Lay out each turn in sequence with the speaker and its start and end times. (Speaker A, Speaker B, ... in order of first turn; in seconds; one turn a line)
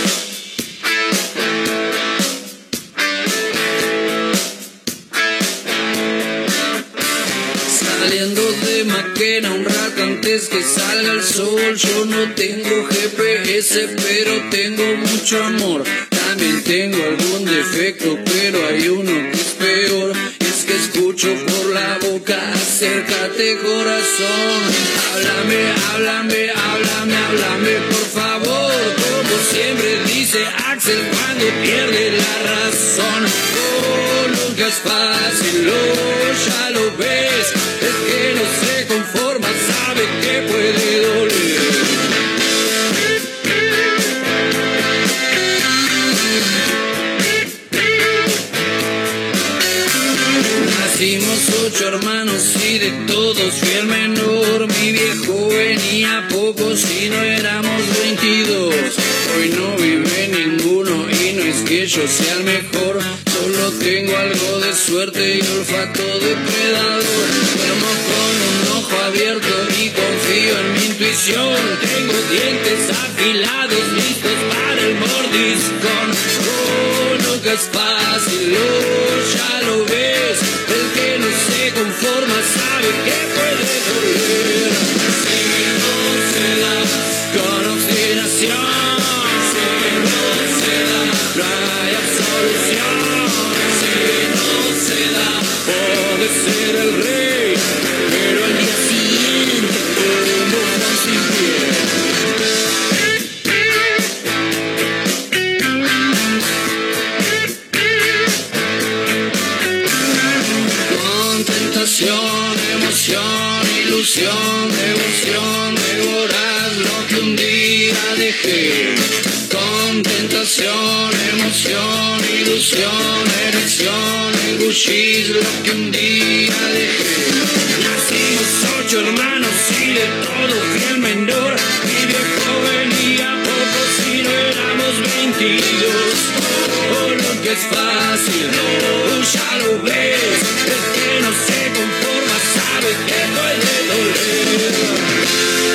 Speaker A: 7.7-42.0
Speaker A: 50.6-101.9
Speaker A: 110.8-145.0